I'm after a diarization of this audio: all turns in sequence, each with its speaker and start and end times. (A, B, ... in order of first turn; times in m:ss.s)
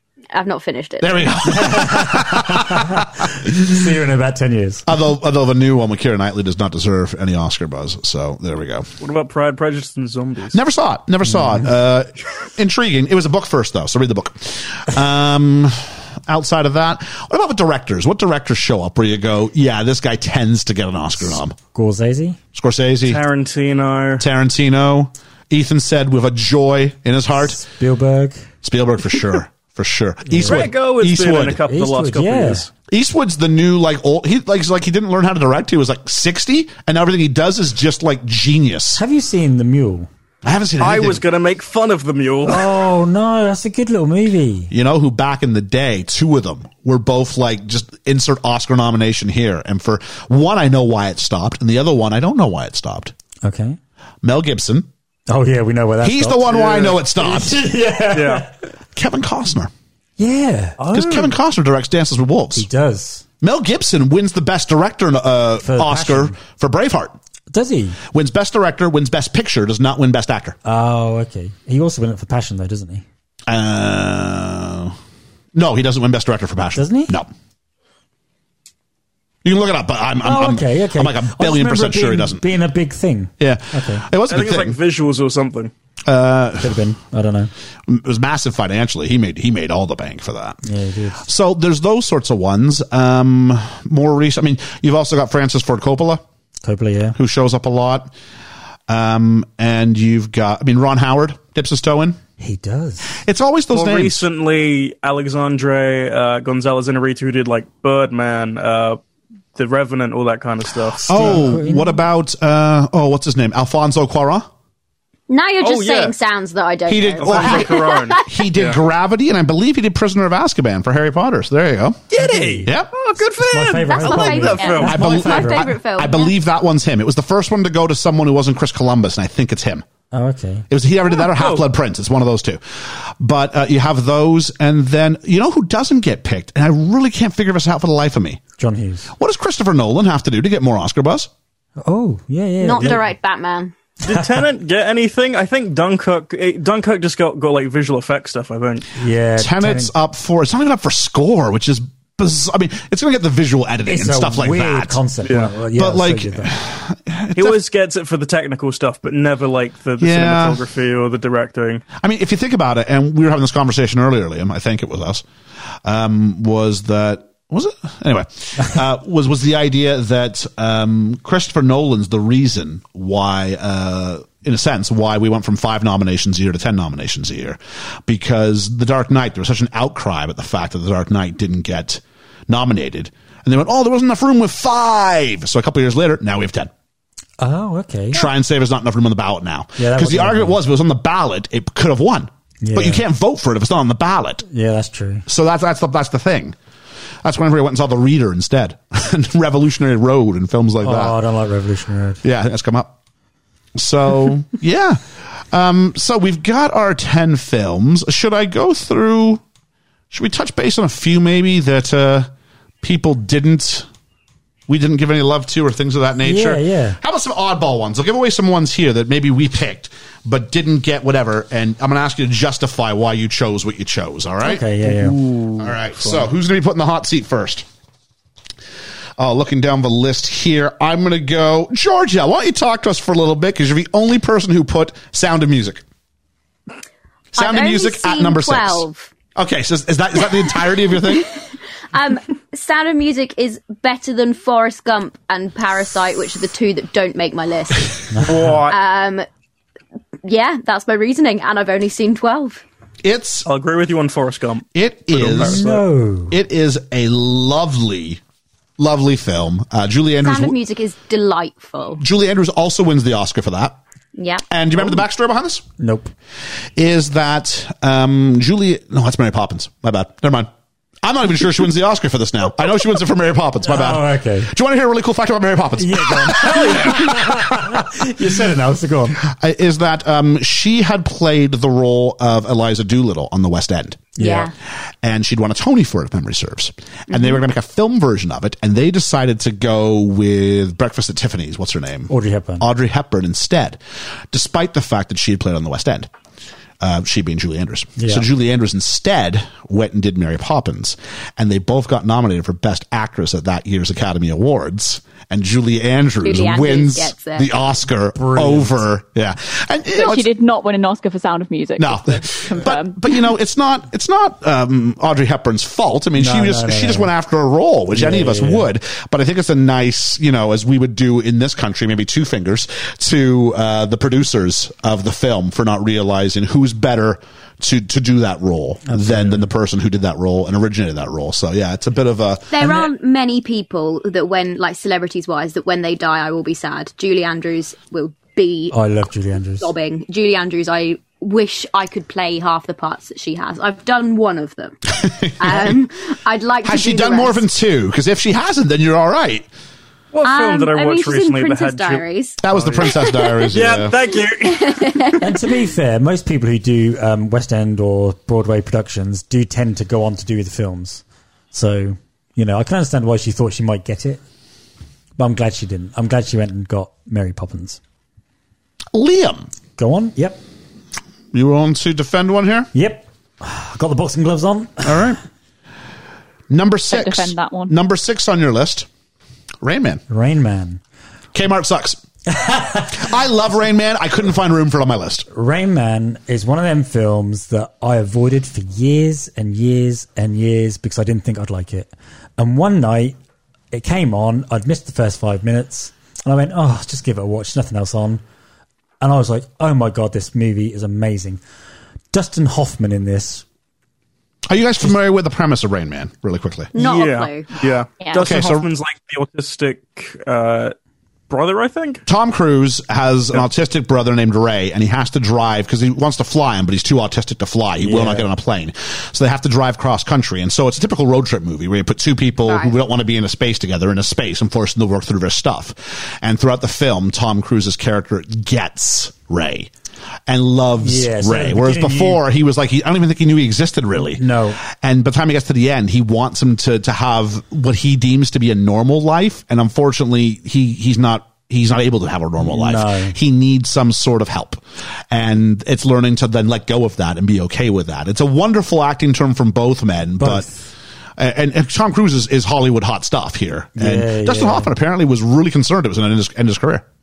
0:00.3-0:01.4 A
0:01.0-0:03.6 B
0:01.4-0:04.8 C
0:04.9-0:08.9 B
0:09.0-0:10.6 D
0:10.5-0:21.6 B
0:11.3-0:11.6 C
0:21.7-0:22.4 C
0:22.5-0:23.2 B
0:23.0-0:24.2 D
0:24.2-0:27.6 B
0:27.4-0:28.5 C
0:28.6-0:31.6 B
0:30.3-0:30.7 C
0:30.4-0:32.7 D
0:31.7-0:32.6 C
0:32.9-0:39.0 B
0:39.0-0:40.1 C
0:40.4-0:41.2 B
0:40.8-0:42.7 D
0:42.5-0:44.7 C
0:44.7-0:53.1 B
0:53.4-0:53.8 C
0:54.2-0:54.9 B
0:55.3-0:58.5 C
0:56.0-0:57.6 B
0:56.5-0:57.0 D
0:58.1-0:58.4 D
0:58.9-0:59.7 B
1:00.2-1:00.8 C
1:00.8-1:01.3 D
1:00.9-1:02.7 B
1:02.5-1:03.2 C
1:03.4-1:07.1 B
1:05.6-1:06.4 C
1:07.5-1:08.0 C
1:08.1-1:10.6 B
1:10.6-1:13.0 C
1:13.5-1:15.0 B
1:15.5-1:17.3 B
1:16.7-1:17.2 C
1:19.4-1:22.4 B
1:20.2-1:24.0 C
1:23.4-1:24.8 B
1:24.3-1:25.7 D
1:26.0-1:26.8 B
1:26.6-1:27.5 C
1:27.9-1:30.6 B
1:30.6-1:31.2 C
1:31.2-1:36.2 B
1:36.6-1:37.2 C
1:37.2-1:38.1 B
1:38.9-1:42.2 B
1:42.4-1:43.1 C
1:43.2-1:44.2 B
1:43.7-1:49.0 D
1:49.6-1:51.4 D
1:51.0-1:52.0 C
1:51.1-1:54.5 B
1:55.3-1:58.4 A
1:55.6-1:56.1 D
1:56.9-2:02.0 B
1:57.2-1:58.8 D
2:02.1-2:05.0 D
2:02.2-2:02.7 C
2:02.6-2:02.9 B
2:03.5-2:05.7 C
2:03.7-2:06.3 A
2:04.6-2:04.9 E
2:04.8-2:09.8 B
2:10.1-2:10.7 C
2:10.7-2:18.4 B
2:11.2-2:11.6 D
2:18.6-2:19.1 C
2:19.2-2:21.3 B
2:21.8-2:23.1 C
2:22.6-2:23.7 A
2:24.0-2:28.8 D
2:29.0-2:29.9 C
2:29.4-2:35.0 B
2:33.9-2:36.5 C
2:35.2-2:35.5 D
2:35.7-2:37.6 B
2:37.3-2:41.8 D
2:40.0-2:40.6 B
2:42.0-2:45.2 B
2:45.8-3:06.7 B
3:07.4-3:08.3 C
3:08.1-3:14.4 B
3:09.8-3:10.6 C
3:12.6-3:13.0 C
3:14.5-3:15.2 C
3:15.3-3:16.6 B
3:17.2-3:21.2 B
3:20.8-3:22.2 C
3:22.2-3:22.9 B
3:23.7-3:29.4 B
3:30.1-3:32.3 B
3:32.8-3:33.9 B
3:34.7-3:45.0 B
3:36.2-3:37.0 C
3:44.4-3:45.2 C
3:45.1-3:45.4 D
3:45.6-3:47.6 B
3:49.2-3:55.8 B
3:57.3-4:01.3 B
3:57.4-3:59.1 A
4:01.9-4:09.2 A
4:08.2-4:08.8 D
4:10.2-4:12.6 A
4:13.0-4:13.5 B
4:13.4-4:15.8 D
4:14.7-4:15.6 B
4:15.4-4:16.4 C
4:16.3-4:18.2 B
4:18.8-4:20.6 B
4:20.2-4:22.0 A
4:22.0-4:23.8 B
4:24.2-4:24.4 A
4:24.5-4:25.6 B
4:25.8-4:26.1 C
4:26.8-4:30.5 B
4:31.0-4:37.8 B
4:33.6-4:34.5 C
4:35.8-4:39.2 C
4:39.2-4:44.1 B
4:44.2-4:44.5 C
4:44.2-4:44.5 A
4:45.0-4:53.8 B
4:47.1-4:47.4 A
4:52.1-4:52.7 C
4:54.3-4:56.1 B
4:56.8-5:10.3 B
4:58.0-4:58.3 C
5:06.2-5:07.6 A
5:08.1-5:08.8 C
5:09.9-5:13.2 E
5:11.8-5:32.8 B
5:16.2-5:17.1 C
5:17.9-5:18.7 C
5:28.8-5:29.5 C
5:32.5-5:38.8 A
5:38.7-5:39.7 C
5:39.6-5:47.4 A
5:45.0-5:45.8 B
5:46.6-5:49.5 B
5:50.1-5:52.9 D
5:50.2-5:53.5 A
5:52.4-5:54.0 B
5:53.5-5:55.2 D
5:54.4-5:55.3 A
5:55.2-6:04.2 C
6:05.2-6:07.8 C
6:08.9-6:09.5 B
6:09.8-6:10.4 C
6:11.3-6:12.7 B
6:12.7-6:15.1 C
6:14.8-6:15.2 B
6:16.5-6:18.9 B
6:16.9-6:17.7 E
6:19.6-6:20.0 B
6:20.1-6:20.8 C
6:21.3-6:22.0 B
6:22.3-6:23.0 C
6:22.9-6:25.2 B
6:25.3-6:33.2 C
6:33.7-6:38.2 C
6:39.0-6:41.4 C
6:42.1-6:43.4 C
6:44.4-6:46.7 B
6:46.7-6:47.4 A
6:46.7-6:50.7 D
6:48.0-6:48.3 E
6:48.1-6:48.7 B
6:51.3-6:52.0 D
6:52.0-7:09.7 B
6:57.8-6:58.3 C
7:02.4-7:02.7 A
7:10.3-7:30.5 B
7:10.8-7:12.2 C
7:14.2-7:14.6 C
7:22.4-7:23.1 C
7:30.2-7:30.7 C
7:31.2-7:36.8 B
7:33.8-7:34.7 C